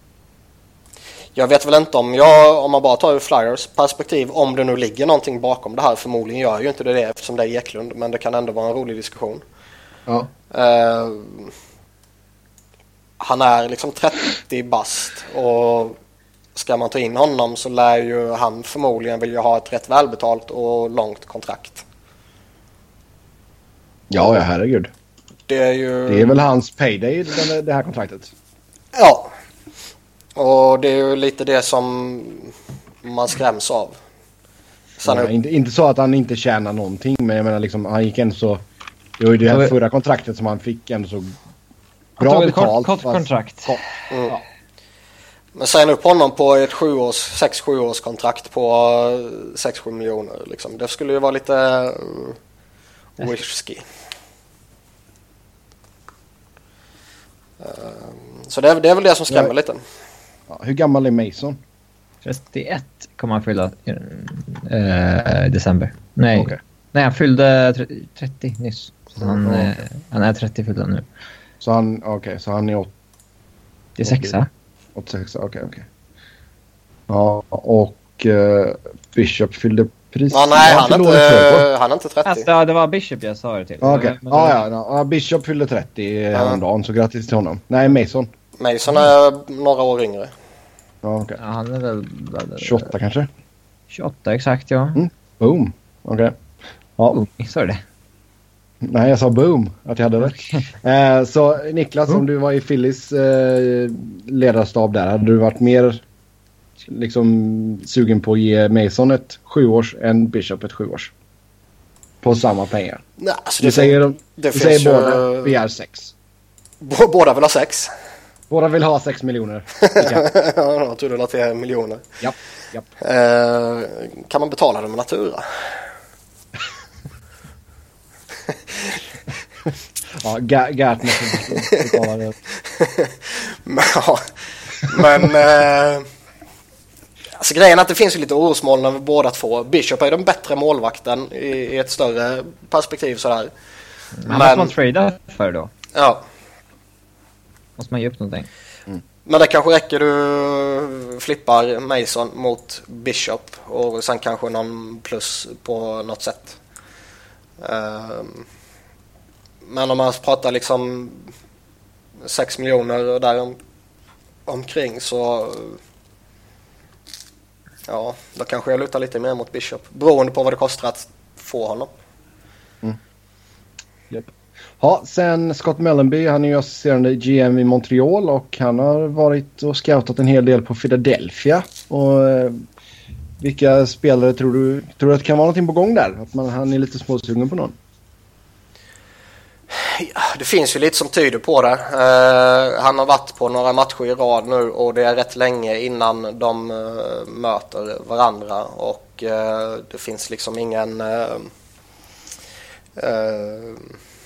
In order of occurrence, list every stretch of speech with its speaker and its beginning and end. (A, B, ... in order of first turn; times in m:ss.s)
0:01.4-0:09.4 A
0:10.5-0:11.5 A
0:13.2-0:16.0 A
0:16.6-0:21.8 A
0:24.1-0:24.9 B
0:25.5-0:26.4 A
0:26.1-0:28.3 B
0:28.9-0:29.3 A
0:30.4-0:34.0 A
0:35.0-0:35.3 A
0:35.0-0:38.6 B
0:39.2-0:41.4 B
0:42.2-0:43.8 C
0:42.2-0:44.4 B
0:44.1-0:44.4 A
0:45.6-0:52.4 A
0:53.2-0:53.8 A
0:57.6-0:59.8 A
1:00.5-1:01.6 B
1:02.2-1:11.1 C
1:09.4-1:09.7 B
1:11.6-1:12.9 B
1:14.0-1:14.5 C
1:14.1-1:14.3 B
1:15.0-1:15.9 B
1:17.1-1:21.7 B
1:20.3-1:22.5 A
1:22.3-1:24.6 C
1:23.8-1:28.3 B
1:26.3-1:26.6 A
1:28.6-1:30.3 A
1:31.0-1:31.4 B
1:31.4-1:32.9 C
1:32.6-1:33.3 B
1:33.9-1:35.0 C
1:35.0-1:36.4 B
1:37.1-1:37.8 C
1:38.8-1:46.0 B
1:46.8-1:51.1 B
1:52.2-1:53.0 B
1:53.2-1:55.6 A
1:53.6-1:56.1 B
1:56.8-1:57.9 A
1:58.5-2:00.3 B
1:59.8-2:02.0 A
2:02.2-2:02.9 B
2:03.0-2:05.6 A
2:10.2-2:12.4 B
2:11.5-2:12.0 A
2:12.6-2:14.2 A
2:14.8-2:16.1 A
2:17.4-2:23.5 A
2:24.2-2:25.7 C
2:24.3-2:24.7 A
2:25.9-2:26.2 A
2:27.8-2:28.5 C
2:29.3-2:36.6 A
2:37.6-2:38.4 A
2:39.7-2:41.3 A
2:42.2-2:43.6 A
2:44.5-2:45.8 A
2:47.9-2:51.9 A
2:54.1-3:02.6 B
3:03.4-3:07.8 B
3:09.7-3:21.5 A
3:23.0-3:23.9 A